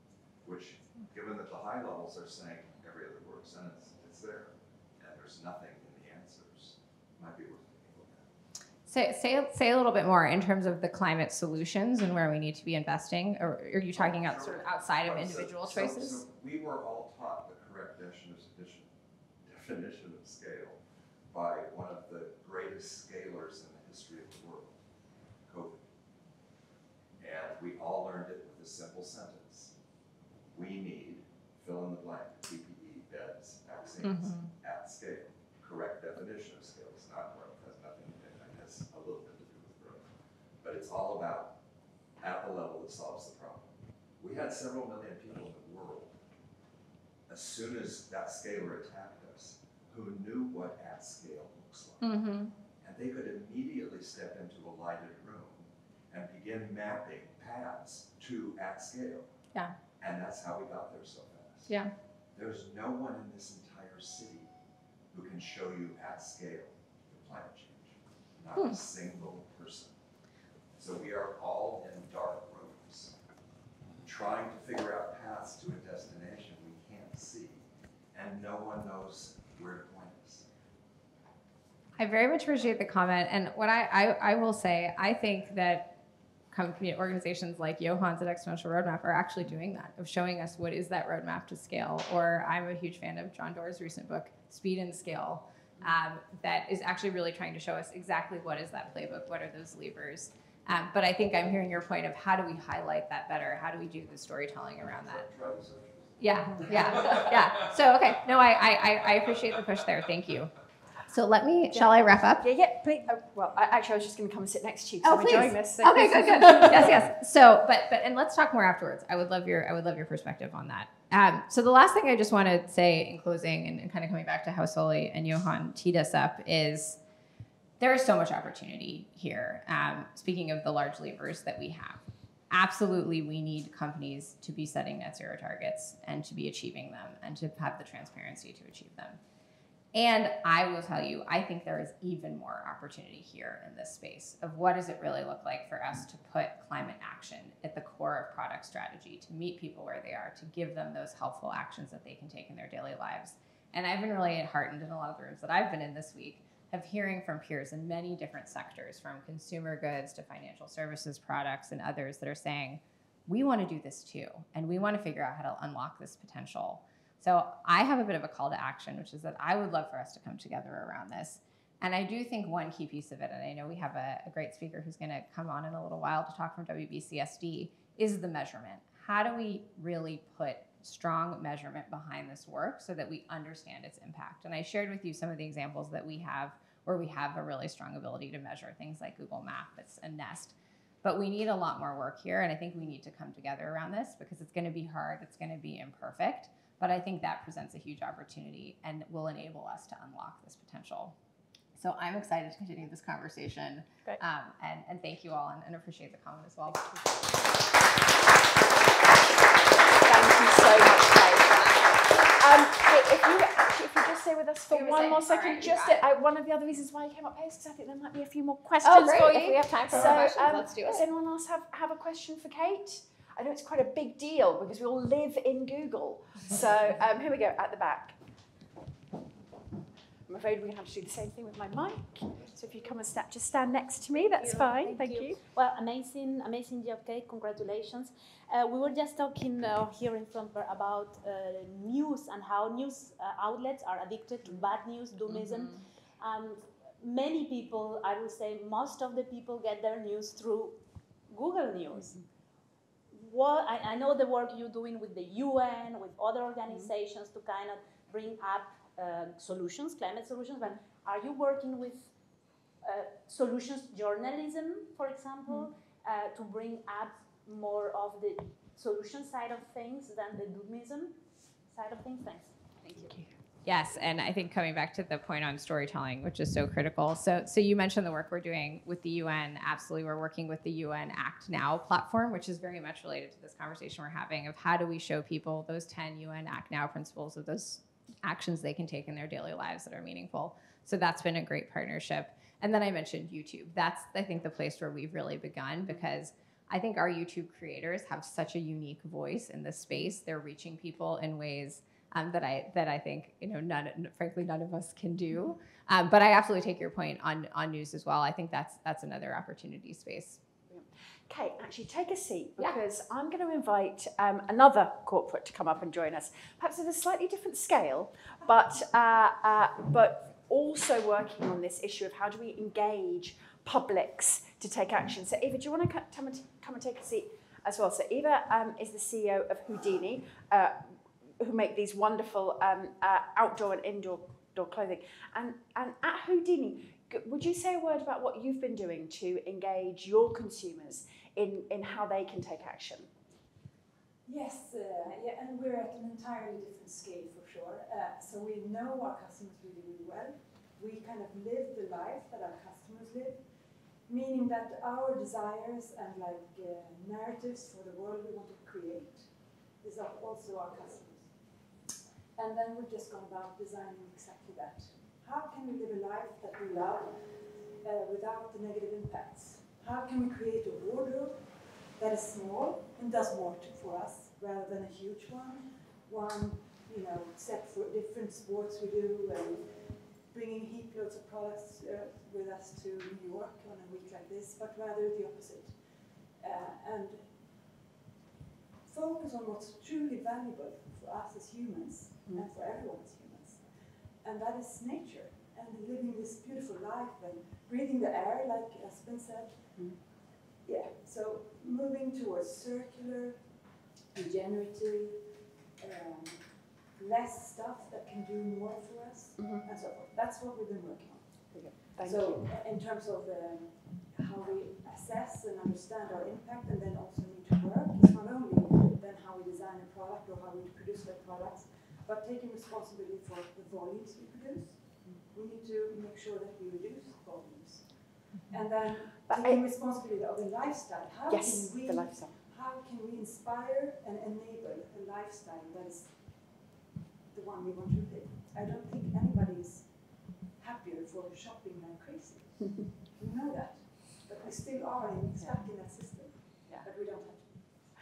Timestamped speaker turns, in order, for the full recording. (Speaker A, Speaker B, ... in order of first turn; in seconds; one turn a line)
Speaker A: 0.4-8.3
Speaker B: 8.9-16.2
Speaker A: 13.9-18.9
Speaker A: 19.4-20.8
Speaker A: 21.3-24.8
Speaker A: 25.5-25.9
Speaker A: 27.2-29.7
Speaker A: 30.5-40.0
Speaker B: 34.0-34.5
Speaker A: 40.6-41.5
Speaker A: 42.2-46.1
Speaker A: 47.3-52.1
Speaker B: 52.0-52.5
Speaker A: 52.8-59.3
Speaker A: 60.0-61.7
Speaker A: 62.4-64.5
Speaker A: 65.1-70.0
Speaker A: 70.8-73.2
Speaker A: 74.0-80.5
Speaker B: 82.0-86.0
Speaker B: 86.5-105.3
Speaker A: 104.8-107.7
Speaker B: 106.2-110.5
Speaker B: 111.1-112.5
Speaker C: 111.7-116.9
Speaker B: 115.0-127.0
Speaker B: 127.8-139.2
Speaker B: 139.9-201.2
Speaker B: 201.8-207.1
Speaker C: 210.1-228.2
Speaker B: 214.7-216.1
Speaker B: 218.8-221.1
Speaker C: 230.3-235.4
Speaker D: 234.3-252.2
Speaker C: 245.3-245.7
Speaker D: 253.1-262.0
Speaker D: 262.8-271.2
Speaker D: 271.7-273.2
Speaker B: 273.6-310.4
Speaker C: 310.7-330.9
Speaker C: 331.4-343.1
Speaker E: 344.2-353.5
Speaker E: 354.1-361.4
Speaker E: 362.4-387.7
Speaker E: 388.9-400.0
Speaker E: 400.6-405.3
Speaker E: 405.8-436.6
Speaker C: 409.4-409.7
Speaker C: 411.5-412.5
Speaker C: 429.0-429.7
Speaker C: 431.3-432.4
Speaker E: 437.3-447.6
Speaker C: 445.4-445.6